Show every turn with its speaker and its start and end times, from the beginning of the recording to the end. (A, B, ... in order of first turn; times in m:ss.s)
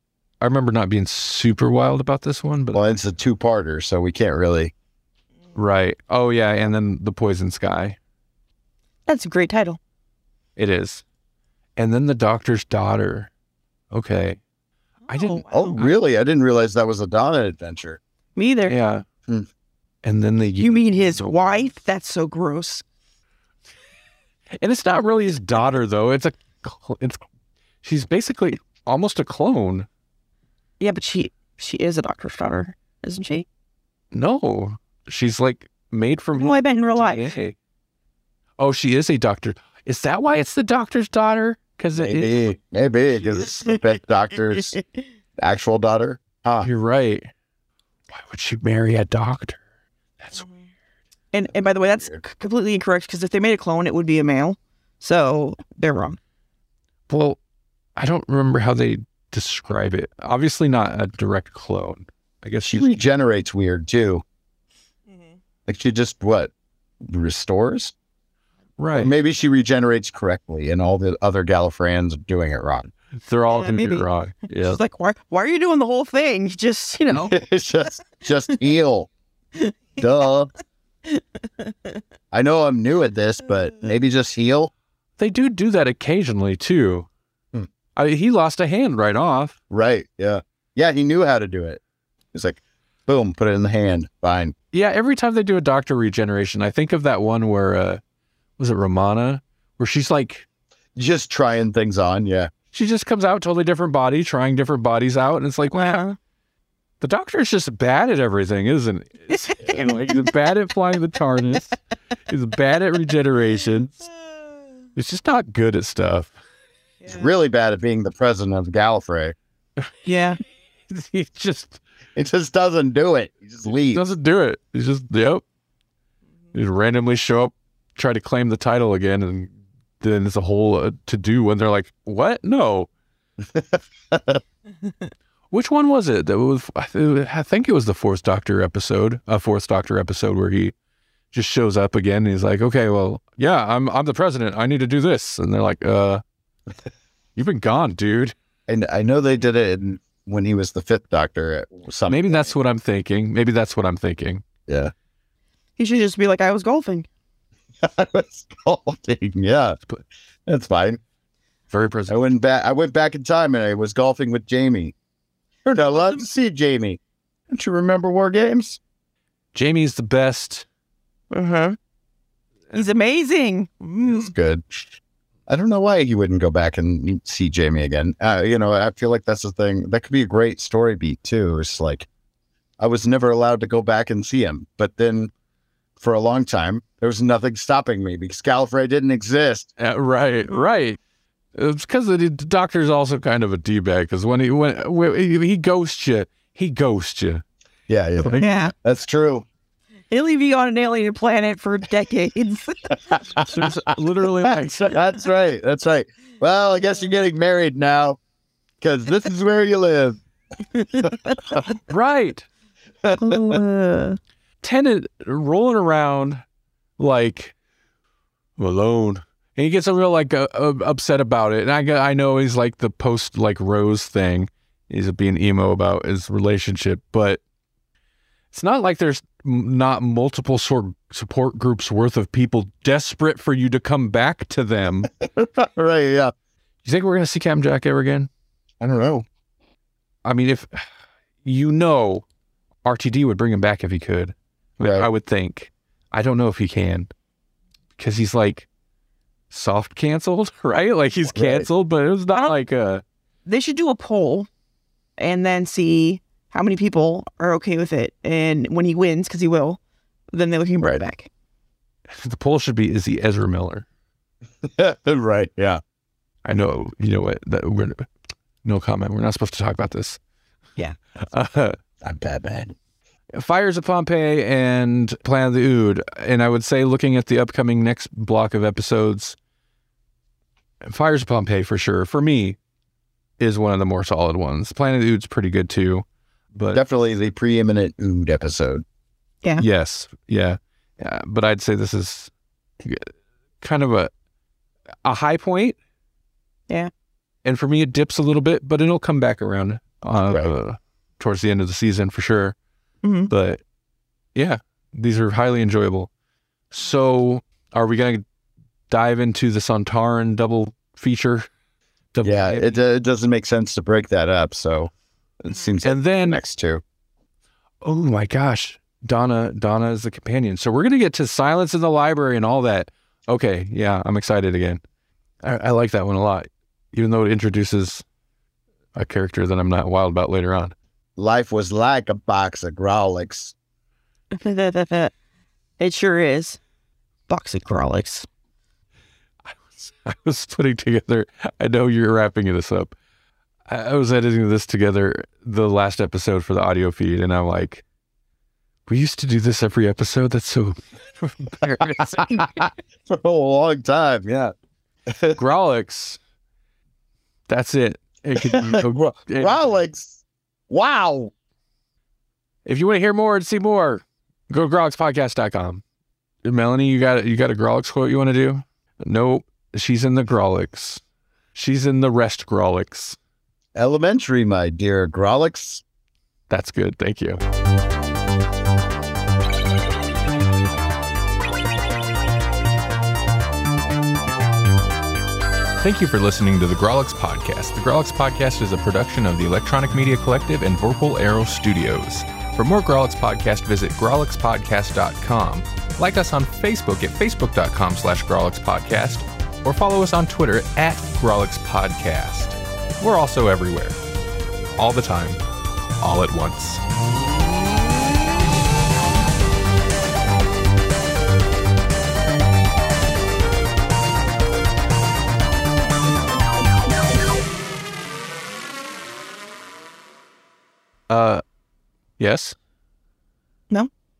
0:00.4-0:02.9 A
0:02.7-0:04.7 B
0:05.5-0:08.0 A
0:09.1-0:09.8 C
0:10.6-0:11.0 A
0:11.8-0:13.3 A
0:13.9-0:14.4 A
0:15.1-0:15.7 C
0:15.1-0:15.9 A
0:15.5-0:18.0 B
0:18.4-0:18.7 C
0:18.6-0:19.0 A
0:20.0-0:21.3 A
0:20.6-0:22.8 C
0:24.6-0:27.2 A
0:27.8-0:29.9 A
0:30.8-0:33.4 C
0:34.1-0:37.5 A
0:36.4-0:37.3 C
0:38.6-0:42.4 A
0:42.0-0:44.8 B
0:45.4-0:46.7 B
0:46.6-0:47.3 A
0:48.1-0:49.6 A
0:51.3-0:56.2 C
0:57.1-0:57.4 A
0:58.0-1:03.0 A
1:02.6-1:04.2 B
1:05.7-1:07.9 B
1:08.8-1:09.1 A
1:08.9-1:12.9 B
1:13.2-1:14.8 A
1:13.5-1:17.4 C
1:17.3-1:19.1 B
1:20.0-1:20.5 B
1:21.1-1:22.0 C
1:22.3-1:24.7 B
1:25.2-1:27.1 A
1:28.0-1:29.6 A
1:29.7-1:31.8 B
1:32.3-1:34.5 B
1:34.7-1:38.0 A
1:38.6-1:40.4 A
1:41.0-1:42.5 B
1:42.7-1:46.0 A
1:45.7-1:46.2 C
1:47.0-1:54.0 A
1:54.9-1:56.4 A
1:57.1-1:59.3 B
2:00.0-2:00.4 C
2:00.9-2:01.8 A
2:02.2-2:04.1 B
2:03.8-2:05.4 A
2:06.5-2:12.9 A
2:13.4-2:14.4 B
2:15.5-2:20.7 A
2:21.3-2:26.2 A
2:27.4-2:28.3 A
2:28.7-2:32.5 B
2:32.1-2:34.4 A
2:34.7-2:34.9 B
2:35.8-2:37.1 C
2:37.8-2:39.8 B
2:40.5-2:41.0 B
2:41.7-2:42.2 A
2:42.1-2:44.9 B
2:45.6-2:47.0 B
2:47.5-2:48.8 B
2:49.5-2:50.6 A
2:51.3-2:51.8 C
2:52.7-2:54.3 C
2:54.0-2:54.8 B
2:55.5-3:02.1 B
3:02.8-3:05.3 B
3:06.0-3:09.7 B
3:09.8-3:11.0 A
3:11.5-3:17.4 A
3:17.9-3:19.4 B
3:18.2-3:18.5 A
3:18.4-3:18.7 C
3:20.1-3:22.9 C
3:23.1-3:23.7 B
3:23.3-3:25.0 A
3:24.4-3:28.2 B
3:28.8-3:30.2 B
3:30.8-3:31.6 C
3:30.9-3:31.6 B
3:31.9-3:32.4 A
3:33.0-3:33.6 B
3:33.1-3:34.2 C
3:34.6-3:36.4 A
3:37.0-3:37.5 A
3:38.6-3:47.4 A
3:48.5-3:55.1 A
3:55.2-3:56.3 B
3:56.8-3:58.3 A
3:58.8-3:59.2 B
4:00.2-4:00.9 A
4:01.4-4:02.2 A
4:02.8-4:07.1 A
4:04.8-4:05.1 B
4:08.0-4:08.7 A
4:09.5-4:13.0 A
4:11.3-4:11.7 B
4:13.4-4:14.5 C
4:15.2-4:19.8 C
4:20.3-4:21.3 C
4:22.1-4:23.8 A
4:24.6-4:25.8 B
4:26.4-4:28.1 A
4:28.6-4:30.2 A
4:31.3-4:31.8 A
4:32.0-4:32.7 B
4:33.3-4:39.4 A
4:40.8-4:42.6 A
4:43.4-4:46.8 A
4:46.7-4:48.8 B
4:49.6-4:54.1 A
4:55.0-4:55.8 A
4:57.4-5:02.5 A
5:03.0-5:03.3 C
5:03.3-5:03.6 A
5:04.3-5:06.1 A
5:06.7-5:08.2 A
5:08.9-5:11.4 A
5:12.1-5:12.8 A
5:12.2-5:16.8 B
5:15.8-5:16.4 A
5:17.8-5:24.8 A
5:25.4-5:28.0 A
5:28.9-5:30.7 A
5:31.2-5:33.5 B
5:34.3-5:35.1 C
5:35.8-5:36.6 C
5:37.3-5:38.3 C
5:39.4-5:42.9 A
5:43.7-5:47.8 A
5:48.9-5:52.6 A
5:51.8-5:54.5 B
5:55.1-5:55.4 B
5:55.4-5:56.2 A
5:57.5-5:59.6 A
5:58.3-6:01.3 B
6:02.6-6:05.8 A
6:06.4-6:11.0 A
6:11.5-6:13.2 A
6:13.7-6:15.8 B
6:16.5-6:17.4 A
6:25.8-6:44.0 A
6:44.8-6:45.4 A
6:46.0-6:46.8 A
7:01.1-7:01.4 A
7:02.2-7:02.5 A